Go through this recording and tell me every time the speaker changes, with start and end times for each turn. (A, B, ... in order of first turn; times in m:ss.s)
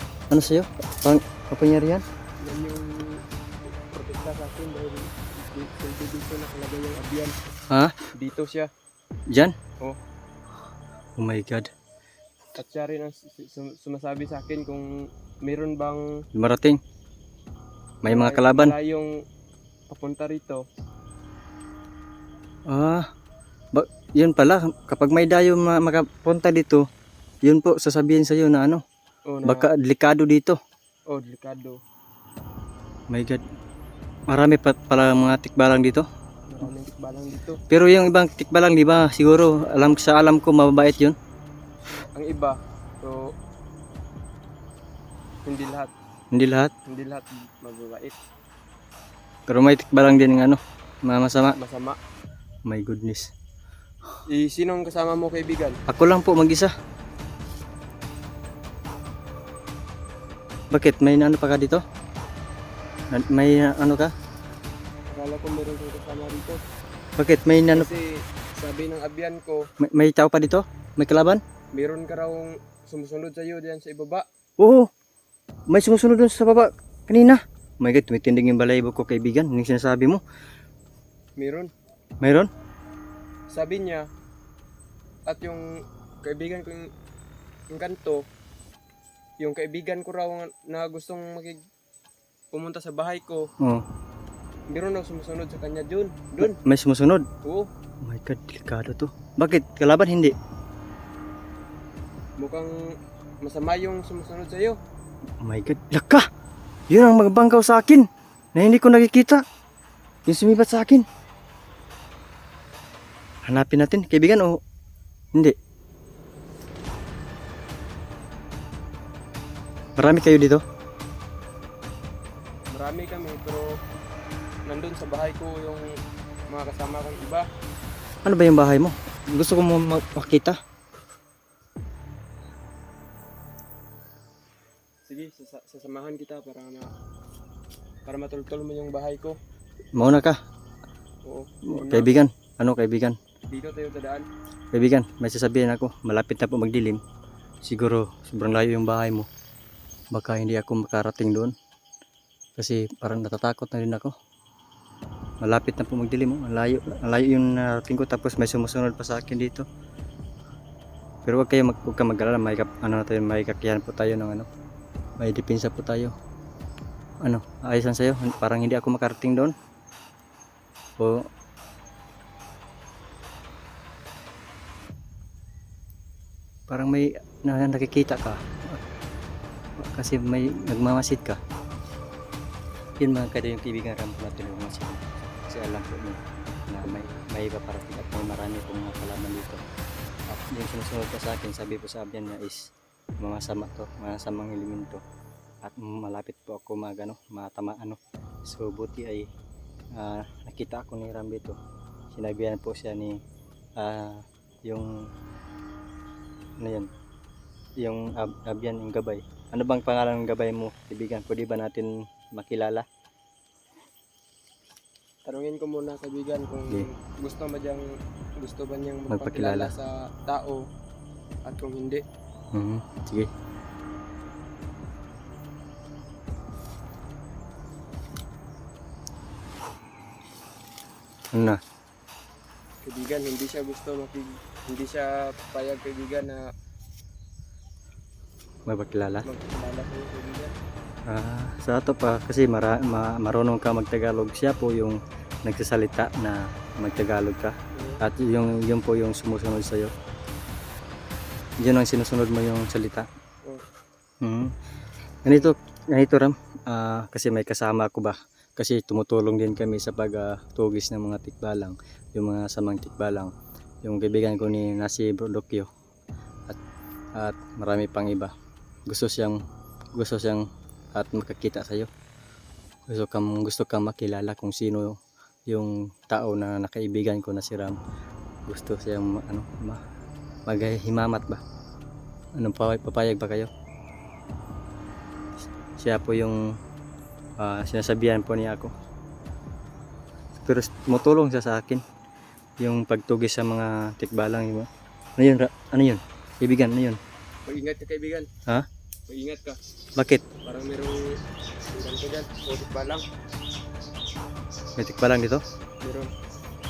0:00.3-0:02.0 A
0:02.4-0:03.2 B
0:03.9-0:07.4 B
0:08.2-0:08.7 B
0:11.2-0:11.7 A
0:12.6-0:14.9 B
0:15.4-0:16.0 B
0:16.4-0:16.8 A
0:18.0-0:18.8 A
0:18.0-0:19.1 B
0:19.9-0:20.6 B
0:22.7-0:23.1 A
0:23.7-0:26.8 A
0:27.4-0:28.8 A
0:29.3-0:29.7 B
0:29.4-0:30.6 A
0:31.1-0:31.8 B
0:33.1-0:33.4 A
0:34.3-0:36.1 A
0:36.5-0:37.6 B
0:37.7-0:41.2 A
0:42.0-0:43.3 B
0:45.4-0:45.9 B
0:46.3-0:46.7 A
0:46.9-0:48.2 B
0:49.5-0:51.6 A
0:51.5-0:52.0 B
0:52.7-0:53.3 A
0:54.3-0:55.8 B
0:55.9-0:56.7 A
1:00.7-1:01.8 A
1:03.1-1:04.1 A
1:05.1-1:06.6 B
1:07.2-1:08.0 A
1:07.7-1:09.6 B
1:09.8-1:11.4 A
1:11.7-1:14.2 B
1:14.6-1:14.9 A
1:15.7-1:20.2 A
1:21.4-1:21.7 B
1:22.2-1:22.5 A
1:23.5-1:24.1 B
1:25.3-1:25.6 B
1:26.2-1:26.9 B
1:27.7-1:28.2 B
1:29.4-1:31.6 B
1:32.5-1:33.5 B
1:33.6-1:33.8 A
1:34.7-1:36.6 B
1:36.4-1:37.2 A
1:37.4-1:37.7 B
1:38.0-1:40.4 A
1:42.4-1:42.7 B
1:43.4-1:44.8 B
1:45.4-1:46.2 A
1:46.9-1:49.4 A
1:50.3-1:51.1 A
1:53.4-1:54.6 A
2:00.0-2:00.6 A
2:02.7-2:03.7 B
2:04.7-2:05.9 B
2:06.5-2:07.4 B
2:08.2-2:10.6 A
2:15.1-2:16.9 B
2:18.1-2:19.4 B
2:20.0-2:20.4 A
2:21.2-2:22.2 B
2:21.7-2:23.2 A
2:23.5-2:24.3 B
2:24.7-2:27.0 A
2:27.6-2:29.3 A
2:30.1-2:31.5 A
2:32.6-2:34.1 A
2:35.4-2:39.7 A
2:41.2-2:44.5 A
2:45.2-2:46.1 A
2:47.2-2:49.5 A
2:51.0-2:51.3 A
2:56.7-2:58.8 A
2:59.8-3:01.4 A
3:03.0-3:09.6 A
3:10.3-3:15.0 A
3:15.6-3:19.3 A
3:20.0-3:21.6 A
3:22.1-3:23.2 A
3:23.8-3:24.9 A
3:26.6-3:26.9 A
3:27.8-3:32.8 A
3:35.2-3:37.8 B
3:38.4-3:40.6 B
3:39.1-3:39.7 A
3:41.5-3:42.0 B
3:42.5-3:43.3 A
3:51.3-3:51.6 A
3:52.8-3:56.4 B
3:58.7-3:59.3 A
3:59.2-4:00.5 B
4:01.1-4:09.9 A
4:07.8-4:08.0 B
4:11.6-4:13.1 A
4:14.2-4:14.5 A
4:15.2-4:23.3 A
4:23.8-4:25.7 A
4:27.2-4:28.3 A
4:28.9-4:29.4 A
4:30.0-4:30.4 A
4:31.0-4:31.9 A
4:32.9-4:35.0 A
4:35.5-4:37.8 A
4:38.5-4:39.8 A
4:40.5-4:41.4 A
4:42.4-4:43.5 A
4:45.8-4:46.4 A
4:47.4-4:48.7 A
4:50.4-4:51.8 A
4:52.6-4:57.0 A
4:57.5-4:58.3 B
4:59.1-4:59.6 B
5:00.0-5:00.2 A
5:00.4-5:01.1 B
5:01.7-5:03.0 B
5:04.8-5:05.4 A
5:05.8-5:06.1 B